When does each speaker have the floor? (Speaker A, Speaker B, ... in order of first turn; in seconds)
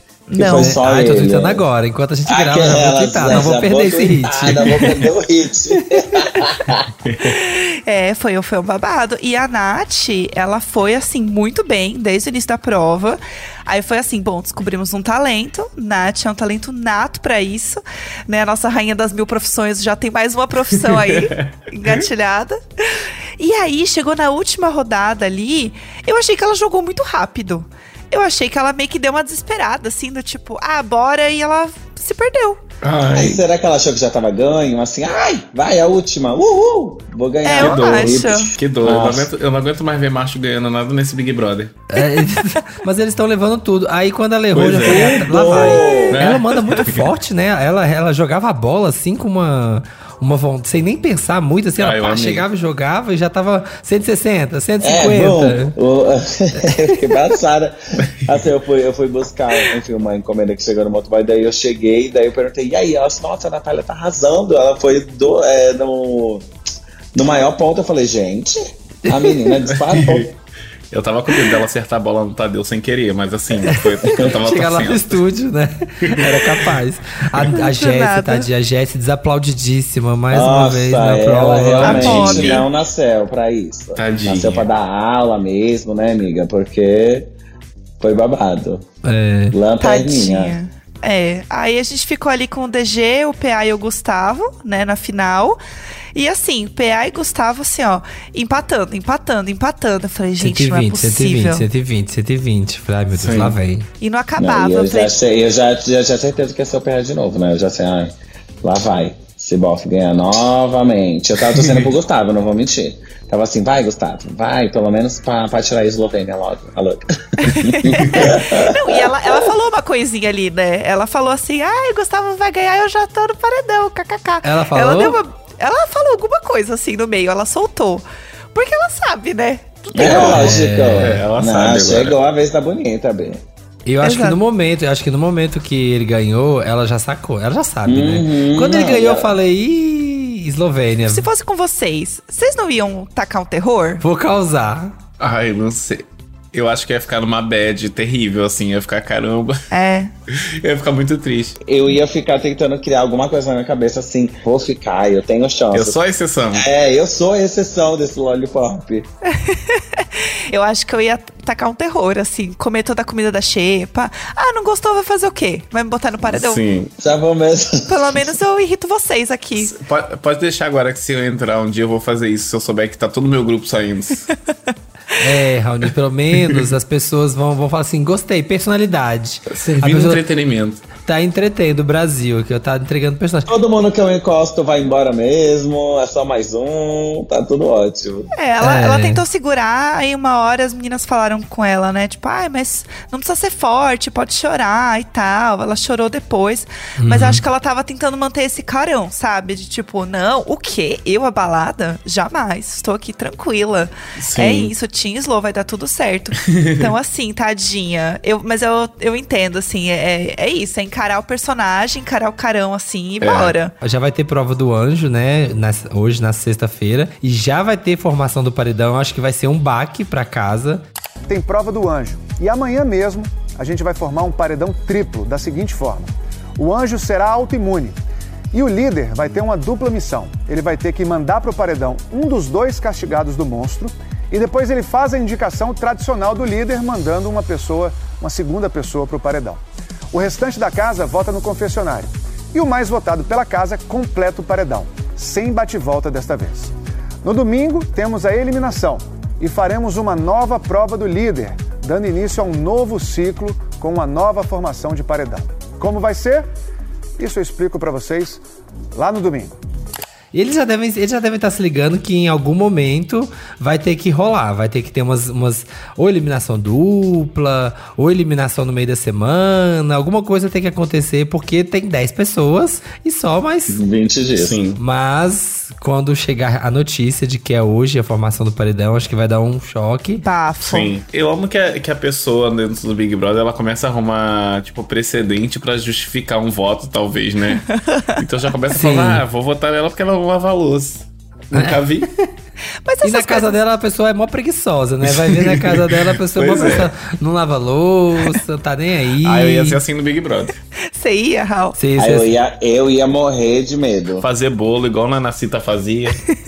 Speaker A: 0.3-0.8, 7.2-32.6, 37.5-38.5, 45.6-46.0, 77.5-78.5, 81.9-82.7, 89.8-95.6, 96.2-101.7, 104.0-105.2, 117.4-130.3, 134.0-134.4, 141.1-144.0, 149.7-150.1, 159.3-166.6, 167.9-169.8, 188.4-213.7, 280.2-280.9, 287.6-288.2, 292.9-293.6, 300.9-301.8
Speaker B: 0.4-1.6, 2.3-6.9, 33.1-39.3, 44.8-46.2, 54.8-66.5, 67.2-70.3, 80.3-87.3, 88.0-88.8, 89.5-90.5, 104.4-119.4, 129.9-133.4, 137.8-139.3, 151.7-156.0, 156.5-159.1, 167.0-168.3, 183.5-188.3, 273.7-274.6, 302.0-304.2
Speaker C: 0.5-4.7, 41.9-55.8, 56.6-57.1, 69.1-69.5, 73.7-82.5, 89.0-89.5, 100.4-103.9, 124.4-125.2, 130.2-131.2, 133.9-141.3, 144.0-145.0, 175.2-180.2, 181.1-183.5, 188.6-189.2, 197.0-197.4, 213.8-220.8, 260.3-273.8, 274.8-280.2, 288.7-289.2, 291.5-292.3, 293.0-299.8, 301.8-302.3
Speaker D: 7.0-7.4, 20.9-22.0, 32.8-33.4, 37.5-41.7, 44.5-45.3, 46.1-47.1, 51.8-52.5, 58.0-58.3, 69.7-70.3, 70.9-75.2, 76.0-76.7, 81.8-82.7, 84.0-84.7, 103.1-103.6, 111.4-111.9, 118.0-118.3, 130.0-132.2, 145.2-149.6, 150.3-151.6, 155.7-156.7, 166.2-166.9, 169.6-174.3, 179.5-180.8, 204.2-204.7, 206.4-206.9, 213.2-213.6, 274.4-274.8, 280.6-287.6, 288.2-292.1, 295.1-296.9, 299.2-300.5, 304.2-306.2
Speaker E: 221.3-228.0, 228.5-239.6, 240.1-256.5, 257.2-258.4, 258.9-259.6